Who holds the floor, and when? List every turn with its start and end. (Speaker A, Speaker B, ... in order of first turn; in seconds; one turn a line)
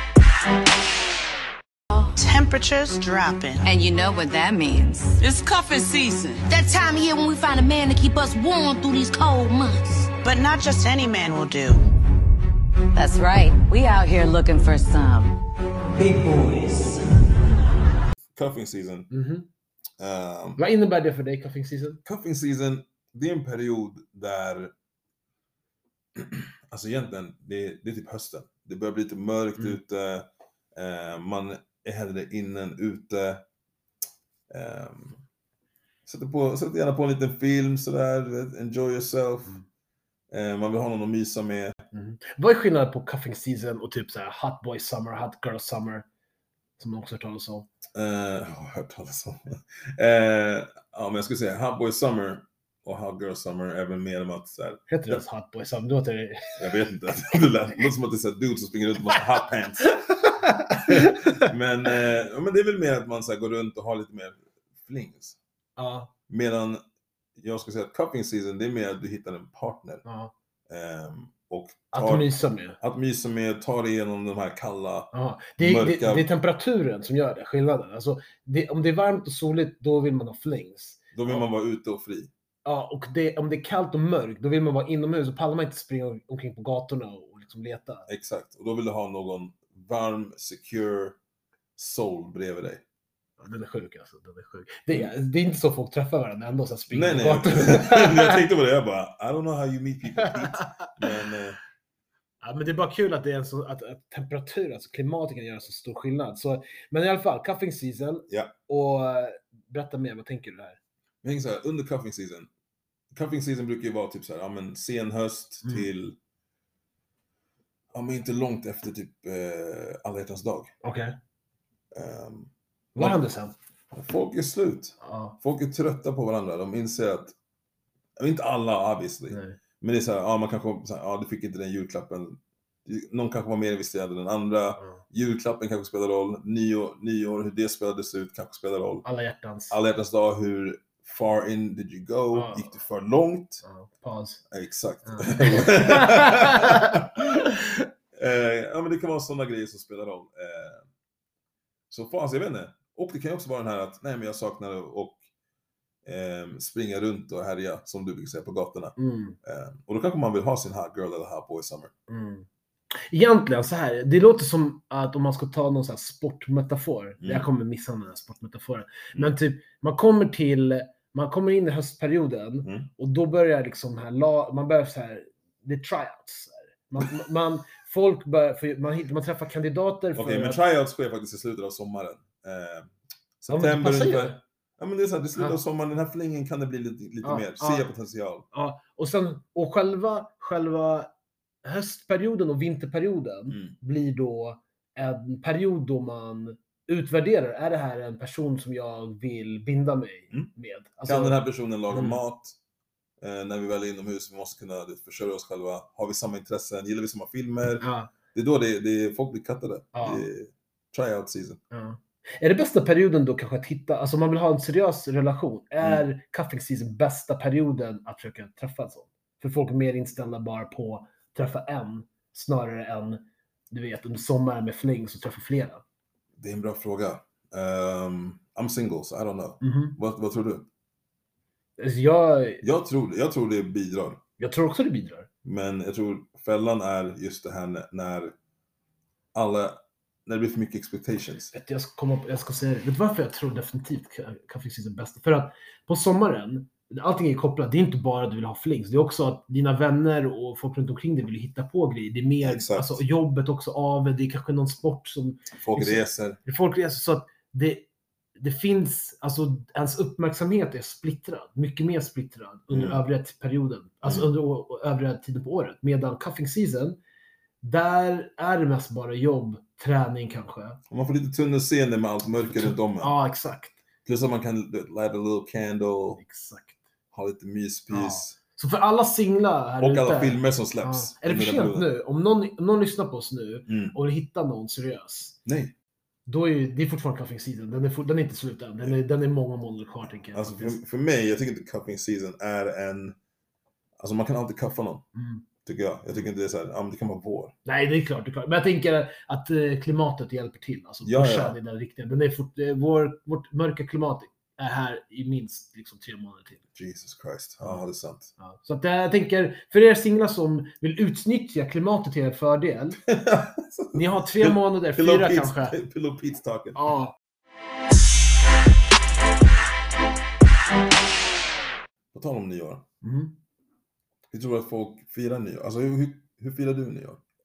Speaker A: 2.1-3.6
Speaker B: 3.6-5.2
Speaker C: 6.4-10.1
Speaker A: 10.2-11.8
Speaker B: 12.9-15.4
Speaker D: 18.4-19.1
Speaker E: 19.1-19.5
Speaker D: 20.0-20.6
Speaker E: 20.6-22.0
Speaker D: 22.1-24.7
Speaker D: 26.2-33.4
Speaker D: 34.5-35.2
Speaker D: 36.1-39.6
Speaker D: 40.3-41.8
Speaker E: 41.9-46.1
Speaker E: 46.8-47.7
Speaker D: 48.0-55.2
Speaker E: 54.9-56.6
Speaker D: 56.6-59.9
Speaker E: 59.9-61.5
Speaker D: 60.9-65.4
Speaker E: 65.8-66.1
Speaker D: 66.3-66.8
Speaker D: 67.4-70.0
Speaker E: 70.0-70.3
Speaker D: 70.7-72.3
Speaker E: 71.9-72.8
Speaker D: 72.8-76.3
Speaker E: 75.1-81.4
Speaker D: 81.1-82.3
Speaker E: 82.7-88.1
Speaker D: 88.1-91.2
Speaker D: 91.8-92.8
Speaker E: 93.4-98.4
Speaker D: 96.9-101.6
Speaker E: 100.2-100.9
Speaker E: 102.4-110.8
Speaker D: 111.2-112.5
Speaker D: 113.1-116.2
Speaker D: 117.9-120.7
Speaker E: 120.8-121.2
Speaker D: 121.9-123.2
Speaker E: 123.0-123.5
Speaker D: 123.9-127.3
Speaker E: 125.0-125.3
Speaker D: 128.2-139.1
Speaker E: 129.3-129.6
Speaker E: 134.8-135.0
Speaker E: 139.0-139.8
Speaker D: 139.7-143.6
Speaker E: 142.3-142.7
Speaker E: 143.6-144.4
Speaker D: 144.5-147.4
Speaker E: 145.1-147.8
Speaker D: 148.2-150.9
Speaker D: 151.9-155.2
Speaker D: 156.1-161.9
Speaker E: 159.0-159.4
Speaker E: 162.1-162.5
Speaker E: 163.1-180.6
Speaker D: 167.2-167.5
Speaker D: 180.2-188.5
Speaker E: 183.5-184.4
Speaker E: 187.2-187.9
Speaker E: 188.5-191.1
Speaker E: 191.6-201.4
Speaker D: 201.1-202.6
Speaker E: 201.9-202.2
Speaker D: 203.2-211.6
Speaker E: 207.8-208.1
Speaker E: 209.9-210.2
Speaker E: 211.7-225.8
Speaker D: 226.4-230.7
Speaker E: 229.6-230.0
Speaker E: 231.8-232.6
Speaker D: 232.6-234.2
Speaker E: 234.4-235.3
Speaker D: 235.4-238.3
Speaker D: 239.3-241.5
Speaker E: 241.5-257.9
Speaker D: 252.4-253.0
Speaker D: 255.6-256.4
Speaker E: 258.4-267.0
Speaker D: 262.7-263.0
Speaker E: 267.6-270.8
Speaker D: 270.9-273.1
Speaker E: 272.5-273.8
Speaker D: 274.1-276.2
Speaker E: 276.2-276.8
Speaker D: 277.1-278.4
Speaker E: 277.9-285.4
Speaker D: 279.8-281.9
Speaker D: 283.7-283.9
Speaker D: 285.5-285.7
Speaker E: 286.3-290.8
Speaker D: 290.3-293.2
Speaker D: 294.0-295.0
Speaker E: 295.1-295.4
Speaker D: 295.6-297.5
Speaker E: 297.6-306.6
Speaker D: 301.0-301.6
Speaker D: 306.8-308.3
Speaker E: 308.4-313.0
Speaker D: 313.1-316.8
Speaker E: 313.9-315.8
Speaker E: 316.8-317.1
Speaker D: 322.1-322.9
Speaker E: 323.0-323.4
Speaker D: 324.3-327.2